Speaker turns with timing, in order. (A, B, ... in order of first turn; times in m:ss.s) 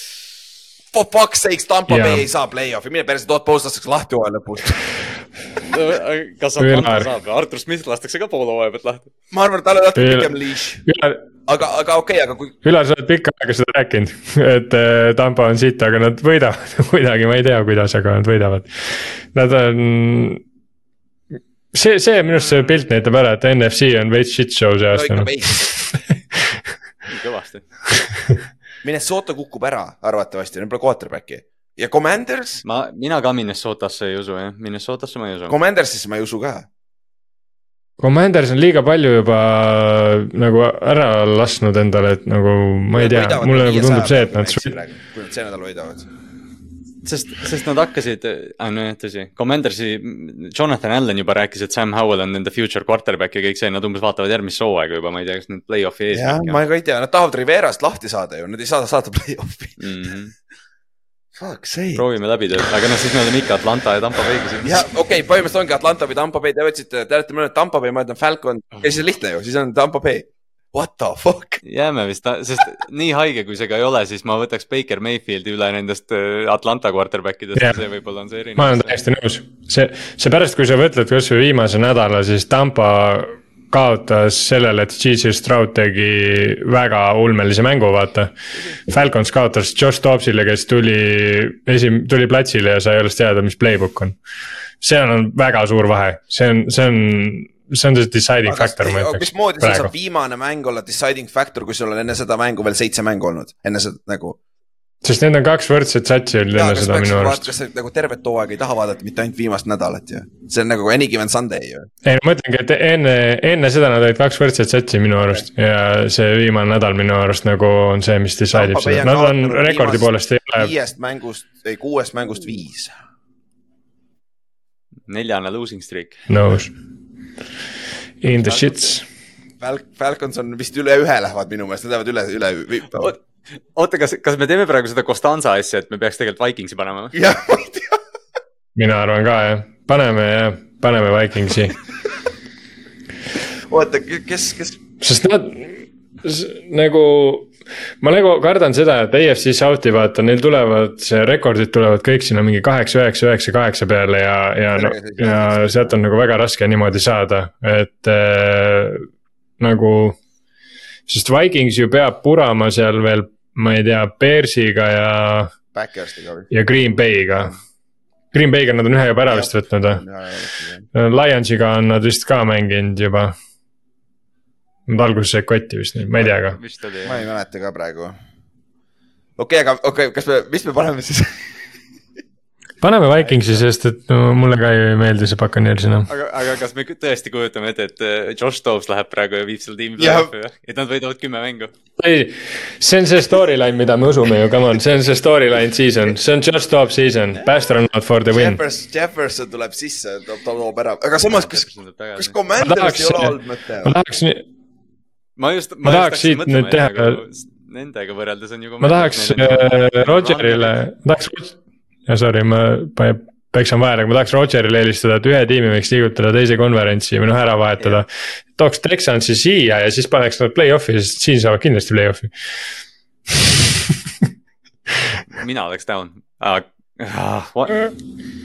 0:00.9-0:04.9 A
0:01.9-0:02.3 B
0:05.6-0:09.1 C
0:06.6-0:07.1 B
0:09.3-0:10.8 A
0:10.0-0:10.3 B
0:10.8-0:11.2 B
0:11.5-0:12.5 A
0:12.6-0:20.4 B
0:21.7-0:25.8 B
0:24.9-0:25.7 A
0:27.1-0:27.7 C
0:28.8-0:32.6 A
0:32.6-0:35.5 C
0:35.5-0:36.7 A
0:38.0-0:44.7 B
0:42.9-0:46.1 A
0:47.0-0:56.6 C
0:56.1-0:59.8 A
0:59.8-1:00.3 C
1:01.3-1:02.0 A
1:01.9-1:04.8 C
1:04.6-1:11.6 A
1:11.6-1:19.0 C
1:18.6-1:28.3 B
1:28.9-1:34.2 B
1:34.8-1:39.9 B
1:38.4-1:44.4 A
1:45.0-1:47.5 B
1:46.5-1:51.9 A
1:52.0-2:00.7 B
1:58.5-2:02.9 A
2:05.1-2:06.2 C
2:06.3-2:06.7 B
2:08.2-2:09.0 B
2:08.5-2:08.7 C
2:09.6-2:13.1 A
2:13.7-2:17.2 C
2:17.1-2:18.0 A
2:18.8-2:21.8 B
2:23.7-2:24.8 A
2:25.0-2:39.1 B
2:34.7-2:36.0 A
2:39.6-2:40.2 B
2:41.1-2:45.5 B
2:45.7-2:46.5 A
2:46.5-2:47.5 B
2:48.3-2:50.0 B
2:49.3-2:50.8 A
2:50.9-2:53.3 B
2:54.9-2:56.6 B
2:56.4-2:57.2 C
2:57.0-2:58.2 A
2:59.4-3:01.5 A
3:02.8-3:06.1 B
3:06.1-3:11.7 C
3:10.0-3:10.3 A
3:12.0-3:18.6 B
3:18.3-3:24.0 A
3:21.3-3:22.4 C
3:22.6-3:24.4 B
3:25.4-3:30.8 C
3:25.8-3:27.2 B
3:28.8-3:31.6 B
3:32.1-3:42.3 B
3:45.3-3:47.9 C